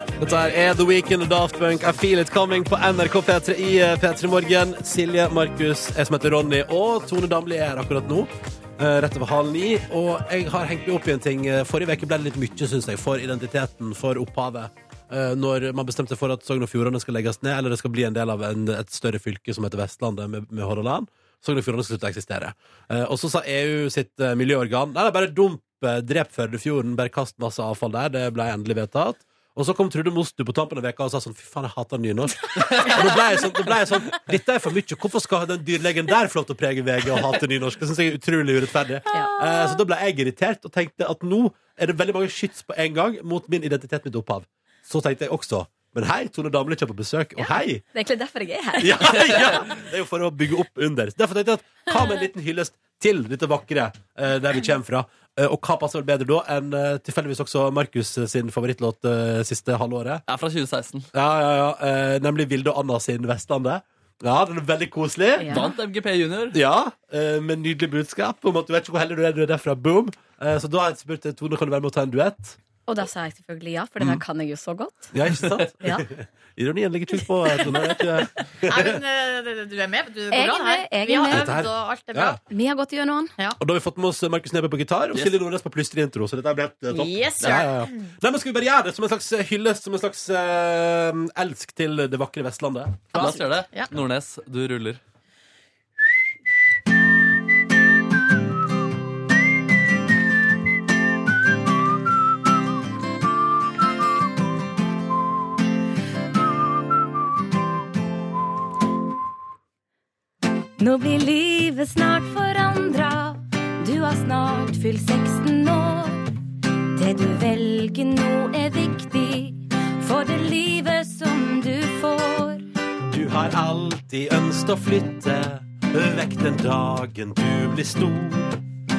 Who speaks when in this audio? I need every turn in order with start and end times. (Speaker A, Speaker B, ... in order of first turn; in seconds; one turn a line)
Speaker A: 0.2-47.8
Speaker B: 32.6-33.0
Speaker C: 39.1-39.6
Speaker C: 47.4-49.6
Speaker A: 48.8-60.2
Speaker B: 60.3-61.1
Speaker A: 61.1-65.5
Speaker C: 65.4-65.8
Speaker B: 65.5-66.6
Speaker A: 66.5-72.6
Speaker C: 72.9-75.2
Speaker A: 75.1-79.0
Speaker C: 75.8-76.1
Speaker C: 77.6-78.0
Speaker D: 78.7-82.4
Speaker C: 80.3-81.6
Speaker A: 81.3-82.4
Speaker C: 82.4-83.3
Speaker A: 83.6-93.0
Speaker D: 86.9-88.1
Speaker B: 93.1-95.0
Speaker D: 93.1-93.9
Speaker C: 110.8-116.3
Speaker C: 116.9-122.6
Speaker A: 123.1-128.6